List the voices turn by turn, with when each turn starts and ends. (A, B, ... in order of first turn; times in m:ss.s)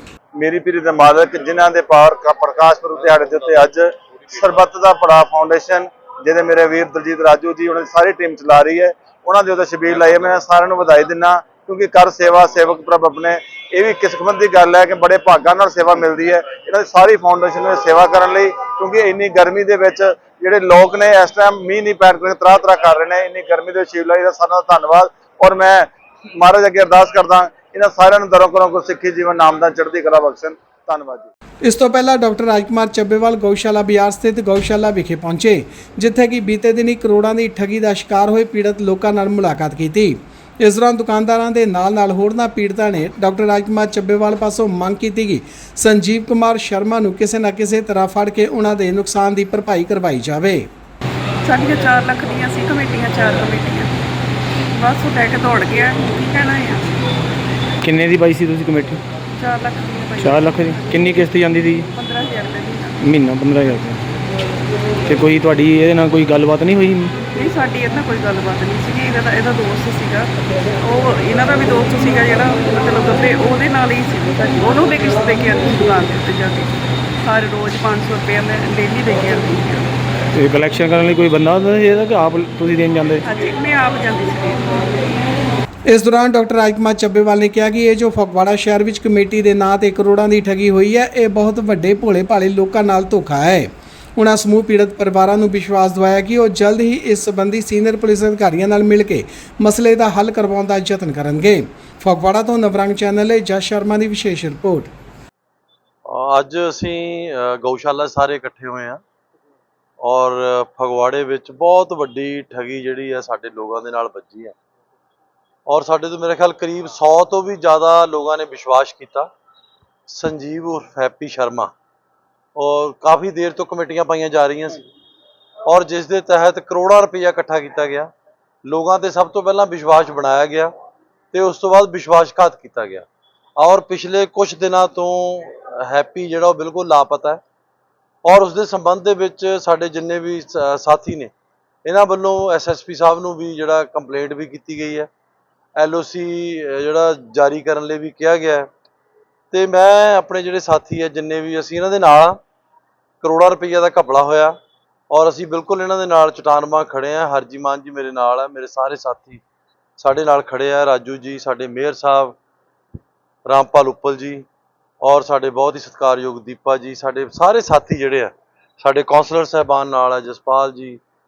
0:00.4-0:31.3 A
0:31.7-0:50.7 B
0:51.4-0:53.9 C
0:54.7-0:57.0 C
0:57.8-0:59.0 D
0:59.4-1:03.0 C
1:00.2-1:01.9 D
1:03.0-1:04.0 D
1:05.1-1:07.1 D
1:07.3-1:19.9 C
1:20.3-1:23.3 D
1:23.2-1:25.0 C
1:25.9-1:44.9 B
1:46.1-1:49.0 E
1:50.0-1:54.6 E
1:55.7-1:59.3 E
2:00.1-2:01.7 E
2:02.6-2:04.9 E
2:05.6-2:08.1 E
2:08.6-2:10.7 E
2:11.3-2:17.4 E
2:18.2-2:21.3 E
2:21.8-2:25.1 E
2:25.8-2:28.7 E
2:29.5-2:32.4 E
2:33.2-2:34.6 E
2:35.1-2:39.4 E
2:40.0-2:42.4 E
2:43.5-2:44.5 E
2:45.0-2:51.0 E